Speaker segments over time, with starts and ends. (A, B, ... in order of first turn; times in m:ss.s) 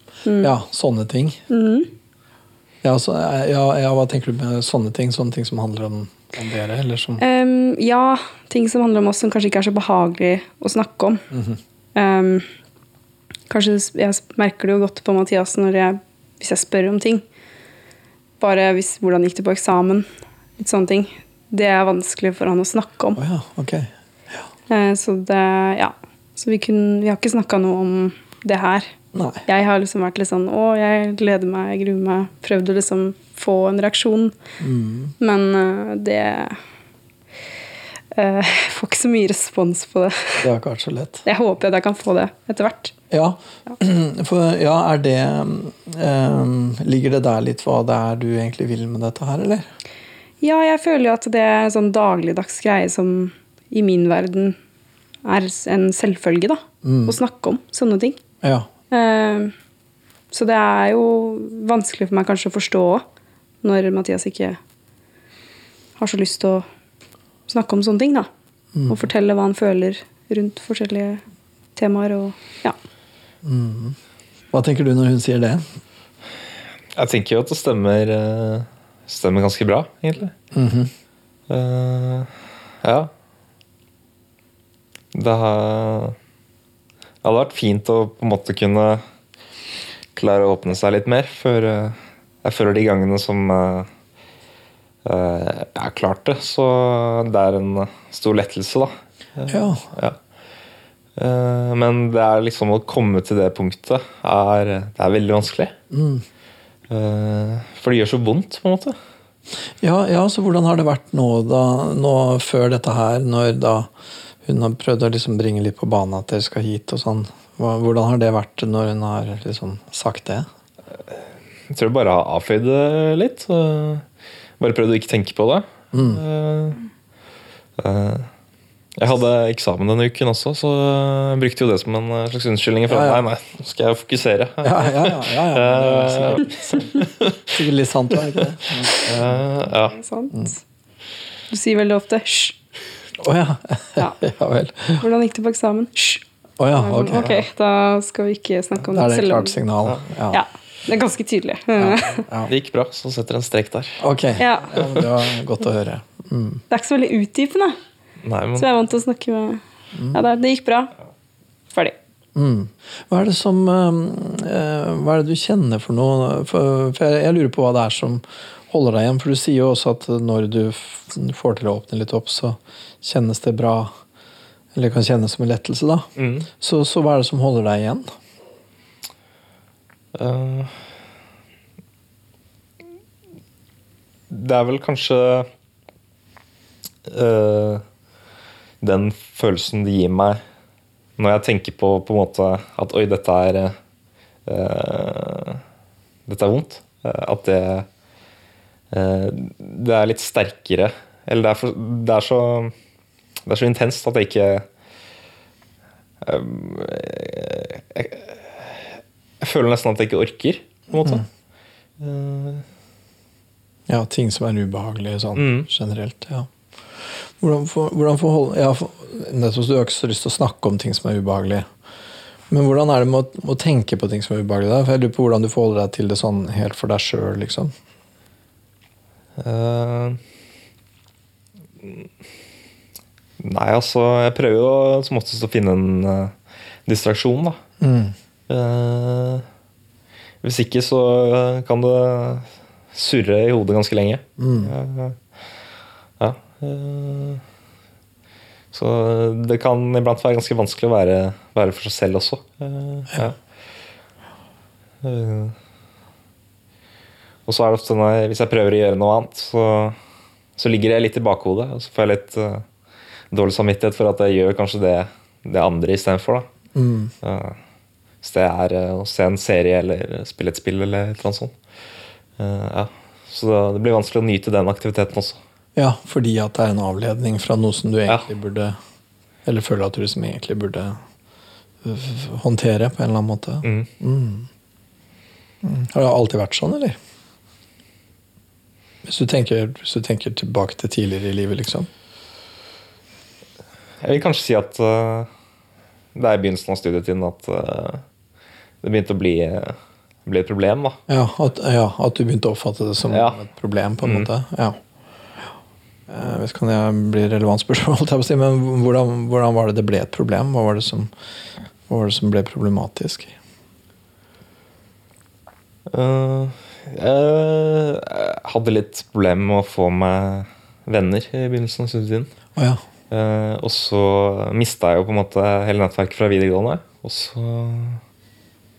0:00.2-0:00.5 A
0:00.4-0:01.4 B
0:01.5-0:01.9 A
0:02.8-0:07.2 B
0:07.2-0:11.2 A
0:11.3-0:11.6 B
0:11.9-0:12.5 A
0:13.5-0:17.2 A
0:18.4-0:20.1 A
0:20.6-0:23.2 A
0:23.2-0:24.4 B
0:24.7-0:28.9 A
0:29.1-0:29.4 B
0:29.4-0:34.4 A
0:34.6-0:35.1 B
0:35.2-0:36.6 A
0:38.1-0:40.4 A
0:40.4-0:41.2 B
0:41.2-0:42.9 A
0:43.1-0:49.7 B
0:50.4-0:54.6 A
0:55.2-0:58.2 A
0:56.8-0:57.2 B
0:58.4-0:58.7 B
0:58.9-0:59.5 A
1:00.3-1:03.0 A
1:03.6-1:04.6 A
1:06.0-1:06.6 A
1:07.5-1:08.3 A
1:08.7-1:09.0 B
1:08.9-1:11.2 A
1:11.8-1:12.8 A
1:13.4-1:14.0 B
1:14.5-1:15.7 B
1:16.9-1:20.3 C
1:20.5-1:20.9 B
1:21.5-1:23.1 C
1:25.1-1:26.2 C
1:27.2-1:29.0 C
1:30.2-1:33.9 C
1:35.0-1:40.2 C
1:39.5-1:39.8 B
1:41.2-1:45.7 C
1:45.9-1:46.2 B
1:46.9-1:49.0 C
1:49.8-1:53.9 B
1:54.4-2:00.5 B
2:01.7-2:04.0 C
2:04.6-2:06.8 C
2:05.9-2:06.2 B
2:07.8-2:08.3 C
2:09.0-2:17.6 C
2:12.9-2:13.2 B
2:14.6-2:17.0 B
2:17.5-2:19.3 B
2:18.4-2:20.0 C
2:19.9-2:20.6 A
2:21.5-2:22.6 A
2:23.2-2:25.0 B
2:25.0-2:26.2 A
2:26.6-2:27.4 B
2:26.7-2:29.6 A
2:28.9-2:30.4 B
2:30.3-2:32.2 A
2:31.8-2:32.5 B
2:32.5-2:34.0 C
2:34.0-2:36.6 B
2:34.4-2:34.7 A
2:34.8-2:35.1 C
2:36.7-2:37.8 A
2:38.2-2:38.7 C
2:38.6-2:40.9 A
2:39.9-2:40.2 B
2:42.3-2:53.9 B
2:54.7-2:58.1 B
2:56.2-2:56.5 C
3:00.1-3:00.8 C
3:04.3-3:05.5 C
3:07.0-3:07.8 C
3:08.8-3:10.4 C
3:11.2-3:13.8 C
3:14.4-3:15.6 C
3:16.3-3:17.9 C
3:18.9-3:22.7 C
3:23.4-3:24.7 C
3:26.2-3:31.3 C
3:32.0-3:32.6 C
3:33.9-3:41.7 B
3:35.4-3:35.7 C
3:42.5-3:47.7 B
3:49.4-3:50.2 C
3:53.4-3:56.3 C
3:56.8-3:57.6 C
3:57.8-3:58.1 B
3:58.5-3:59.4 C
4:00.4-4:05.2 C
4:04.4-4:04.7 B
4:06.2-4:07.4 C
4:08.7-4:13.4 C
4:15.0-4:15.5 C
4:17.5-4:20.0 C
4:20.6-4:22.6 C
4:23.3-4:26.5 C
4:26.7-4:27.1 B
4:27.2-4:27.6 C
4:28.2-4:31.5 C
4:32.4-4:35.4 C
4:35.7-4:38.8 B
4:39.4-4:41.0 B
4:41.8-4:44.5 B
4:43.6-4:43.9 C
4:45.6-4:47.0 B
4:49.0-4:51.9 B
4:54.0-4:55.3 C
4:56.1-4:58.0 C
4:58.8-5:01.0 C
5:01.1-5:04.8 B
5:03.1-5:03.4 C
5:04.0-5:04.3 C
5:06.1-5:11.1 B
5:11.9-5:13.3 B
5:15.9-5:22.3 C
5:22.6-5:22.8 B
5:23.1-5:28.0 C